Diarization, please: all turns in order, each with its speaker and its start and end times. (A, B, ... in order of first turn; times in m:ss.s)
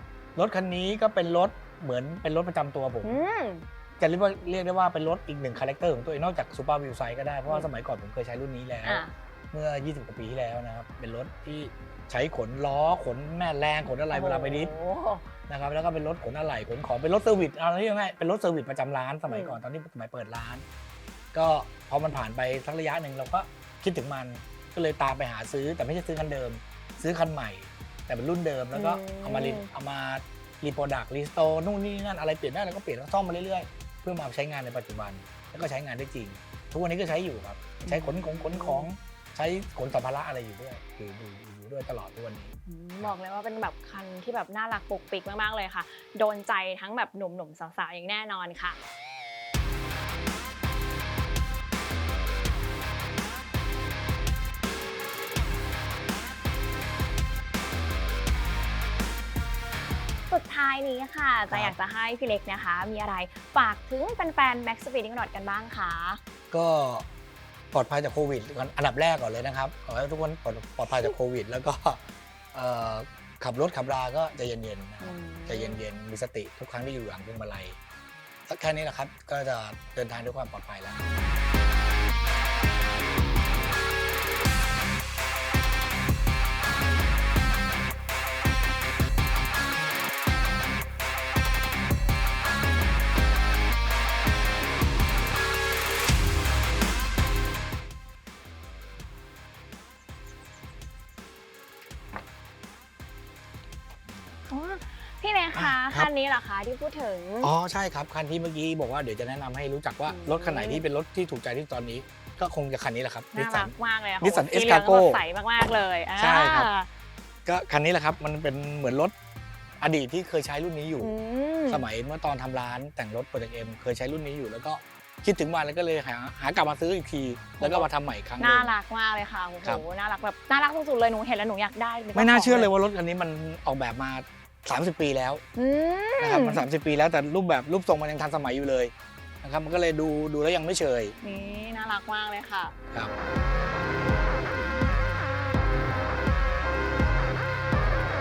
0:00.4-0:03.2 A
0:03.0-0:03.6 B
0:04.0-0:14.7 A
0:08.8-0:09.1 B
0:14.1-0:15.3 B
0:15.5-0:20.6 A
0:19.3-0:19.6 B
0:21.3-0:43.1 A
0:28.7-0:29.7 B
0:37.8-0:38.9 B
0:42.7-0:48.8 B
1:00.3-1:06.2 B
1:01.5-1:01.7 A
1:06.5-1:07.0 A
1:07.7-1:17.8 A
1:15.0-1:15.8 B
1:18.4-1:21.0 A
1:44.5-1:47.5 B
1:45.5-1:46.1 A
1:47.4-1:55.2 A
1:50.0-1:50.8 B
1:53.3-1:56.9 B
1:56.2-1:56.7 A
1:57.4-1:59.1 A
1:59.8-2:01.1 A
2:01.0-2:01.8 B
2:01.7-2:08.7 A
2:07.6-2:07.9 B
2:08.4-2:12.7 B
2:12.1-2:15.4 A
2:15.6-2:16.6 B
2:16.2-2:21.2 A
2:21.2-2:22.7 B